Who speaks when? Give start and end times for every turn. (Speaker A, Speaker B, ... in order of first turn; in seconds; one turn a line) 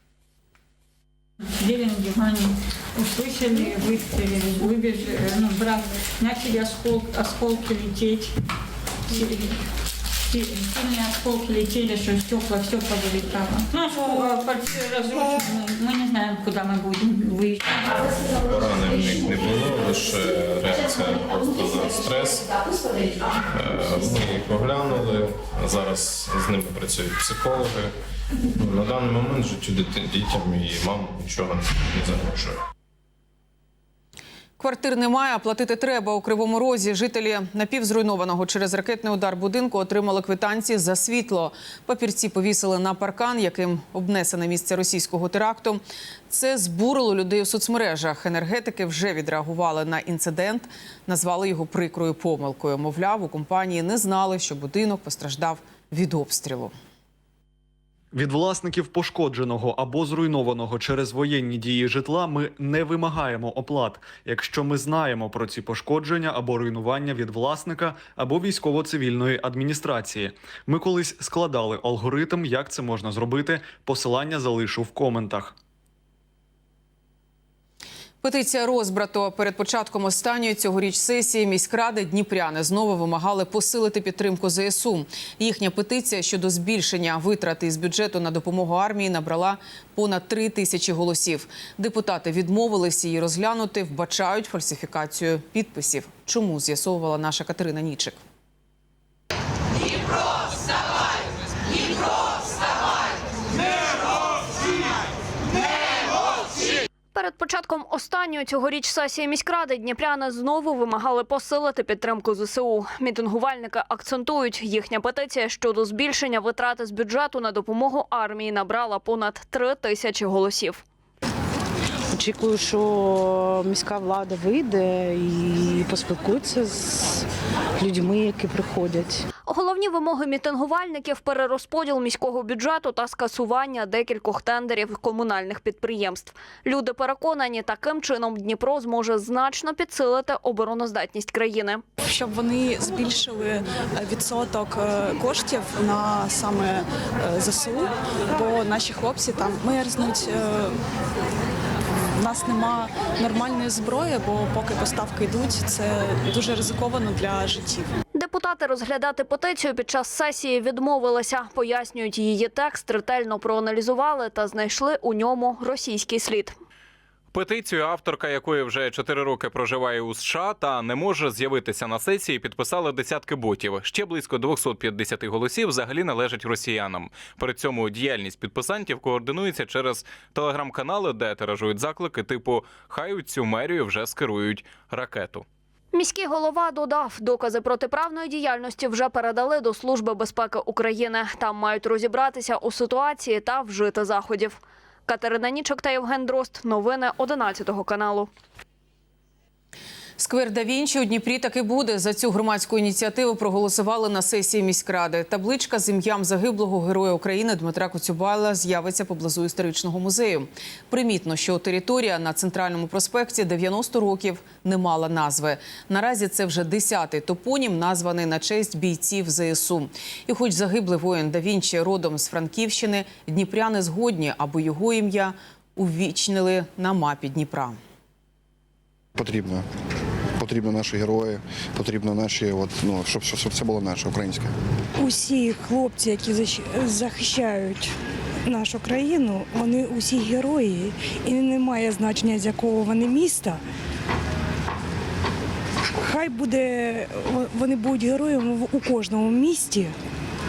Speaker A: 1.6-8.3
Speaker A: 9.1-9.5
Speaker A: 10.3-17.6
Speaker B: 18.4-22.4
Speaker B: 23.5-27.9
Speaker B: 28.6-32.6
Speaker C: 34.6-56.7
Speaker D: 58.1-75.5
Speaker C: 78.2-98.2
Speaker E: 107.1-120.8
Speaker F: 122.2-126.8
Speaker F: 127.8-129.1
Speaker E: 129.4-141.8
Speaker G: 142.1-150.8
Speaker G: 152.2-157.9
Speaker E: 158.1-166.6
Speaker H: 167.3-185.4
Speaker E: 185.9-198.3
Speaker C: 200.2-227.8
Speaker I: 229.2-229.7
Speaker I: 230.4-234.5
Speaker J: 235.0-237.9
Speaker J: 238.5-243.6
Speaker J: 246.0-249.9